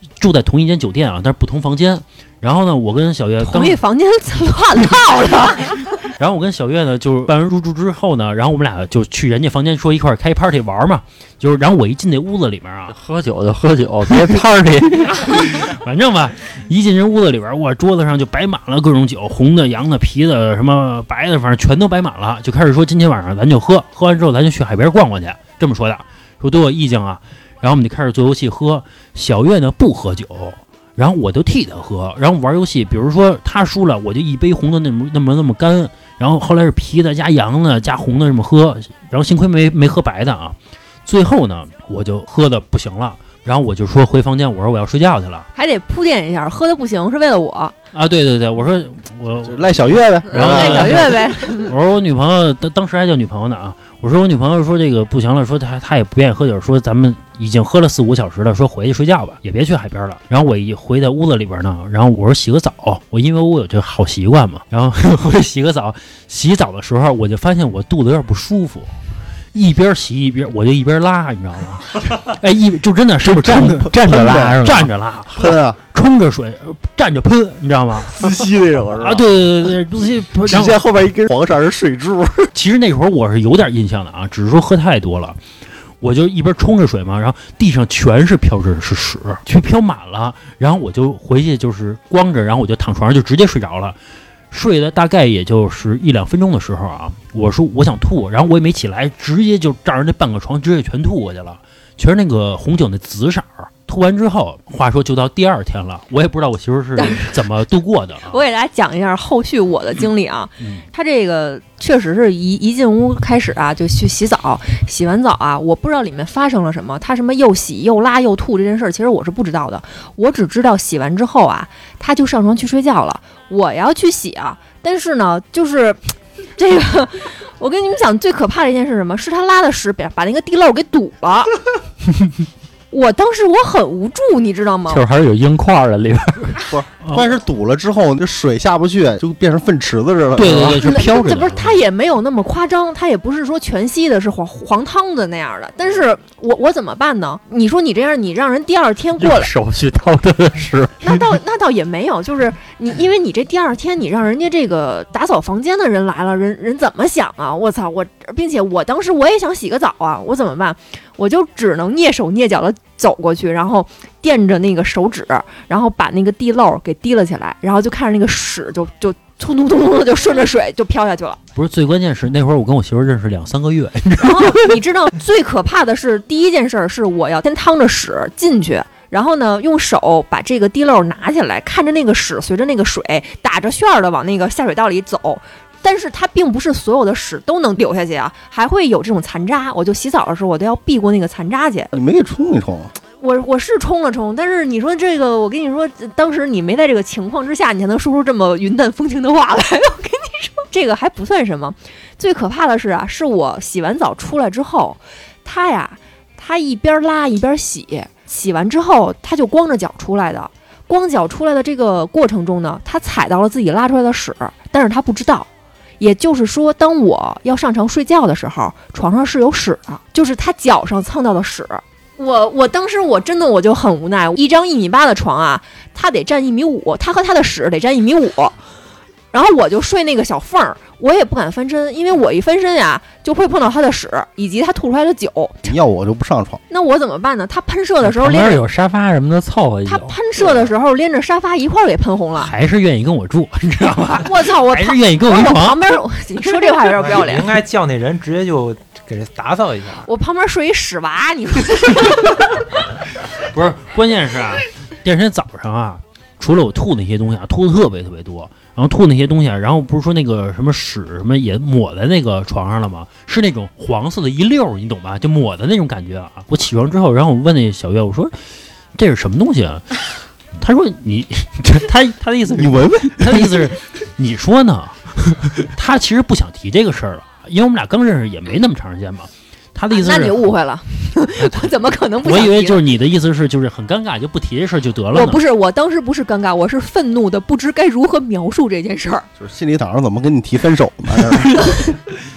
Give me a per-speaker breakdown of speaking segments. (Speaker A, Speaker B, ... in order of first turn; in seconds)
Speaker A: 0.2-3.8, 6.2-13.0, 15.2-45.5, 47.9-68.9, 69.5-78.5, 79.0-80.8, 82.5-85.4, 86.0-94.0, 94.5-108.4, 110.6-110.8, 137.0-137.4, 140.4-141.8, 171.6-174.8, 242.4-245.8, 253.4-268.3, 269.0-270.1, 270.6-280.4, 281.4-281.7, 282.2-285.4
Speaker B: 3.4-5.9, 45.5-47.7, 50.3-51.7, 107.0-107.4, 108.3-131.5, 132.9-135.0, 140.8-149.5, 151.0-171.4, 174.2-191.9, 193.2-215.5, 216.0-228.6, 229.3-235.7, 236.7-238.6, 239.8-242.5, 244.2-247.6, 250.1-252.4, 279.9-282.8, 285.1-289.3
Speaker C: 12.9-15.3, 73.3-74.9, 134.9-136.6, 149.2-151.2, 238.0-240.2
Speaker D: 49.4-51.1, 74.0-74.7, 75.3-75.8, 78.1-79.3, 80.5-82.5, 136.7-140.8, 191.9-192.9, 235.7-236.6, 272.5-273.8, 289.4-291.7
Speaker E: 246.8-250.1